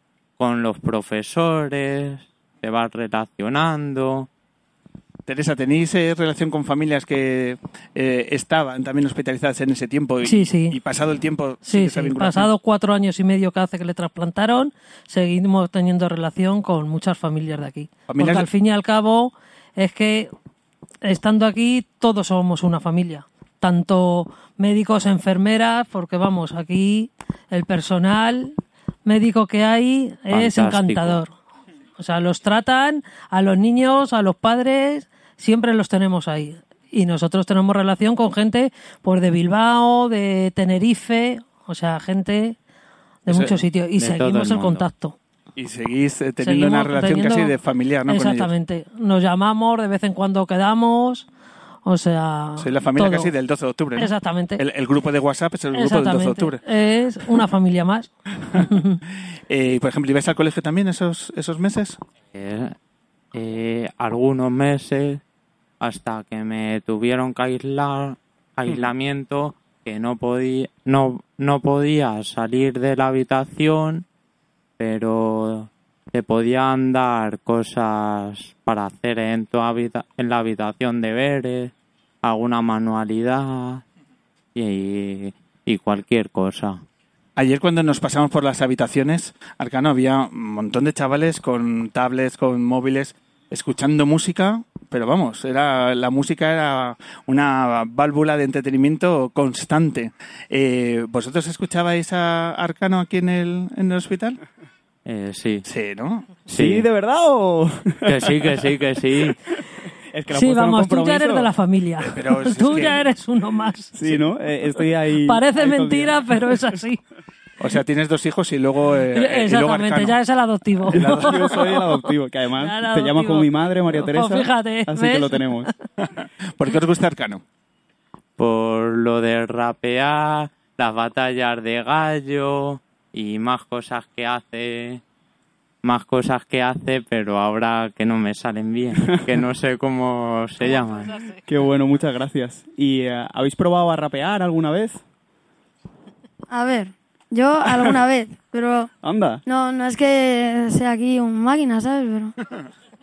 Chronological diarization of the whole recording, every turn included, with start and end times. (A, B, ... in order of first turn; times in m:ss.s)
0:00.4-0:04.3 A
0:05.2-0:12.5 B
0:10.2-0:10.8 C
0:11.6-0:20.3 C
0:18.1-0:18.5 B
0:21.0-0:31.3 C
0:30.3-0:31.2 A
0:32.0-0:42.6 C
0:43.2-0:45.2 C
0:43.3-0:43.6 B
0:44.0-0:44.8 A
0:45.6-0:48.5 B
0:46.4-0:47.5 C
0:48.1-0:51.3 C
0:51.8-0:53.3 C
0:52.6-0:56.6 B
0:54.0-0:54.6 C
0:55.7-0:59.0 C
0:59.5-1:02.0 B
1:02.3-1:02.7 A
1:03.3-1:05.2 A
1:05.8-1:14.0 A
1:14.8-1:23.8 A
1:24.5-1:26.8 A
1:27.4-1:44.4 B
1:45.0-1:45.6 A
1:45.6-1:46.4 B
1:46.5-1:46.9 A
1:46.5-1:48.6 D
1:48.0-1:49.4 A
1:50.1-1:51.5 D
1:50.3-1:53.9 C
1:52.0-1:53.0 B
1:54.0-1:56.2 D
1:55.2-1:57.0 C
1:57.6-2:00.2 B
1:59.1-2:01.9 C
2:00.9-2:01.7 B
2:00.9-2:05.7 D
2:02.6-2:05.7 C
2:06.0-2:07.4 B
2:08.4-2:15.0 A
2:15.8-2:21.3 A
2:21.4-2:25.0 D
2:26.5-2:28.9 E
2:29.0-2:29.4 D
2:29.4-2:32.4 E